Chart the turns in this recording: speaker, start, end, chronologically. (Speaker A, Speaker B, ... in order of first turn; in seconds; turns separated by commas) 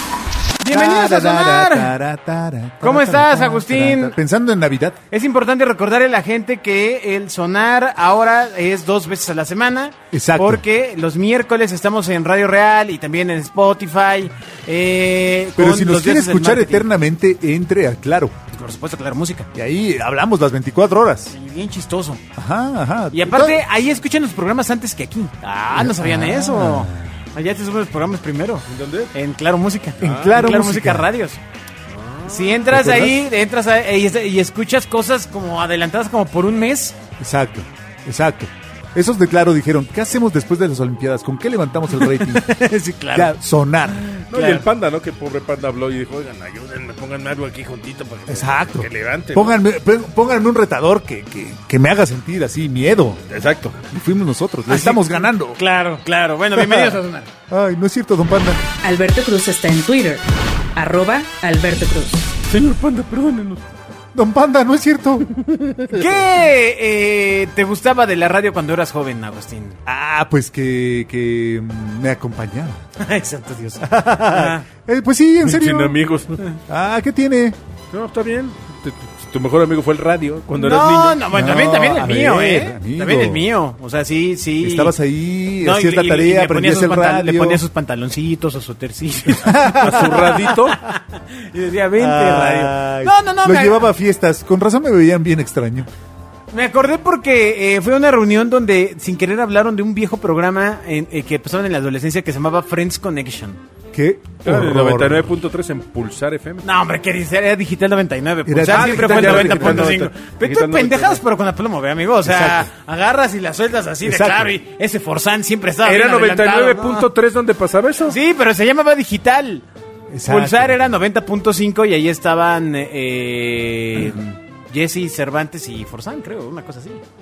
Speaker A: 0.6-1.9, Speaker B: 0.7-5.0, Speaker A: 2.8-4.2, Speaker A: 5.1-16.9, Speaker B: 10.1-10.6, Speaker B: 15.6-18.4, Speaker A: 18.5-19.5, Speaker B: 19.6-21.4, Speaker A: 21.3-22.2, Speaker B: 22.4-23.6, Speaker A: 23.1-31.4, Speaker B: 25.7-27.2, Speaker C: 28.7-29.1, Speaker B: 30.0-31.1, Speaker C: 30.0-30.3, Speaker C: 31.9-32.7, Speaker A: 32.3-37.0, Speaker B: 32.7-33.2, Speaker B: 37.2-42.6, Speaker A: 42.1-43.3, Speaker B: 43.1-44.1, Speaker C: 44.3-49.5, Speaker A: 44.3-44.6, Speaker B: 48.3-53.2, Speaker C: 53.3-53.8, Speaker B: 53.9-55.6, Speaker A: 54.7-57.3, Speaker B: 57.5-58.6, Speaker D: 58.8-60.2, Speaker D: 60.8-62.3, Speaker C: 62.5-63.6, Speaker B: 64.2-65.3, Speaker C: 65.4-66.1, Speaker A: 65.9-69.8, Speaker B: 69.9-72.8, Speaker A: 73.0-74.7, Speaker B: 73.8-76.0, Speaker C: 75.4-76.4, Speaker B: 76.7-77.6, Speaker C: 77.9-81.3, Speaker A: 80.5-84.9, Speaker B: 81.3-83.4, Speaker B: 84.6-87.6, Speaker A: 85.6-93.8, Speaker B: 89.4-90.1, Speaker C: 89.8-90.8, Speaker B: 92.0-95.9, Speaker A: 96.5-103.6, Speaker B: 103.9-105.3, Speaker C: 104.4-106.7, Speaker A: 106.6-117.1, Speaker B: 108.5-110.0, Speaker C: 108.6-111.2, Speaker B: 112.2-112.7, Speaker B: 114.0-114.5, Speaker C: 115.8-118.2, Speaker A: 118.1-119.7, Speaker B: 120.1-120.8, Speaker A: 120.2-127.0